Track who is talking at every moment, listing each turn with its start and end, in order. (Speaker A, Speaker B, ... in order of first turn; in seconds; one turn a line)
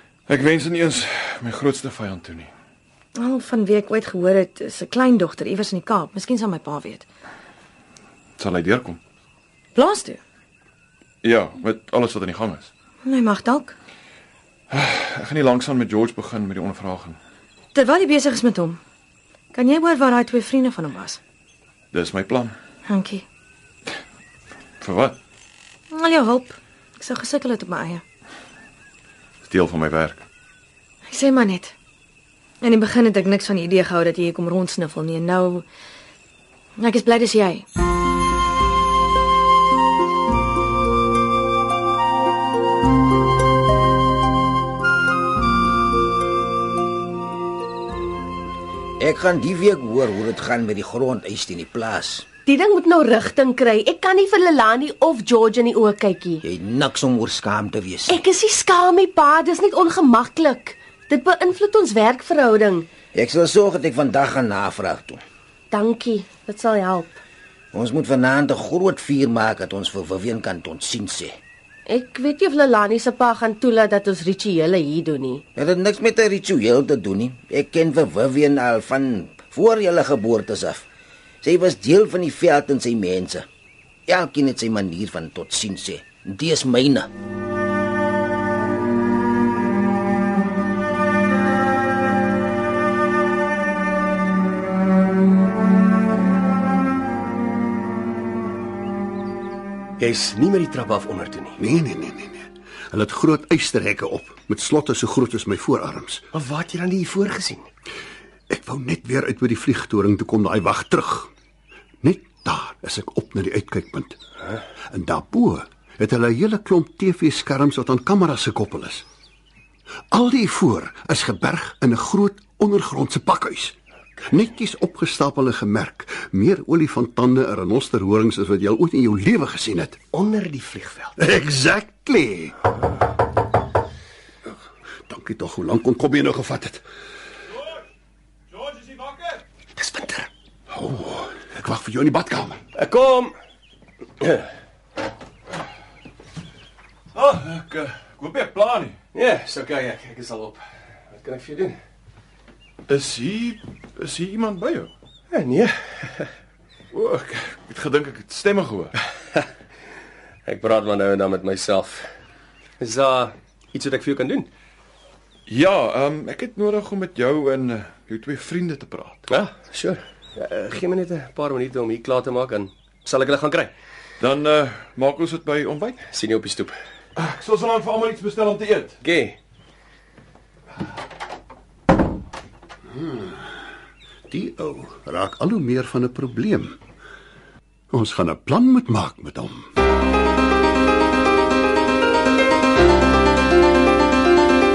Speaker A: 0.3-2.5
Speaker B: 3.2-7.1
Speaker A: 8.4-9.0
Speaker B: 9.8-10.2
Speaker A: 11.2-12.7
Speaker B: 13.0-13.8
Speaker A: 14.7-17.2
Speaker B: 17.7-18.8
Speaker B: 19.5-21.2
Speaker A: 21.9-22.6
Speaker B: 22.9-23.2
Speaker A: 24.8-25.2
Speaker B: 25.9-28.0
Speaker A: 29.4-30.2
Speaker B: 31.1-31.8
Speaker B: 32.6-35.7
Speaker B: 36.8-37.6
Speaker C: 49.0-52.3
Speaker D: 52.5-56.4
Speaker C: 56.4-58.2
Speaker D: 58.1-62.9
Speaker C: 63.1-65.2
Speaker D: 65.7-67.1
Speaker C: 67.7-71.3
Speaker D: 71.9-75.4
Speaker C: 75.6-80.8
Speaker C: 81.4-83.5
Speaker C: 84.1-87.1
Speaker E: 100.0-101.6
Speaker F: 101.6-106.3
Speaker E: 106.3-107.7
Speaker F: 108.5-111.3
Speaker F: 112.0-114.2
Speaker F: 114.9-119.0
Speaker F: 120.1-123.8
Speaker F: 124.3-130.0
Speaker E: 130.1-131.1
Speaker F: 131.2-132.6
Speaker F: 135.1-136.8
Speaker A: 138.5-139.4
Speaker E: 139.8-140.3
Speaker F: 140.7-142.6
Speaker E: 142.8-143.3
Speaker E: 144.2-144.5
Speaker A: 147.1-149.0
Speaker E: 149.1-151.8
Speaker A: 152.9-154.9
Speaker E: 155.3-156.3
Speaker A: 156.9-159.0
Speaker E: 160.5-162.1
Speaker E: 162.8-164.5
Speaker A: 165.5-169.3
Speaker E: 169.3-173.7
Speaker A: 174.2-176.1
Speaker E: 176.1-176.8
Speaker A: 177.2-179.0
Speaker E: 179.0-179.4
Speaker F: 182.9-183.5
Speaker F: 184.3-186.8
Speaker F: 187.9-189.7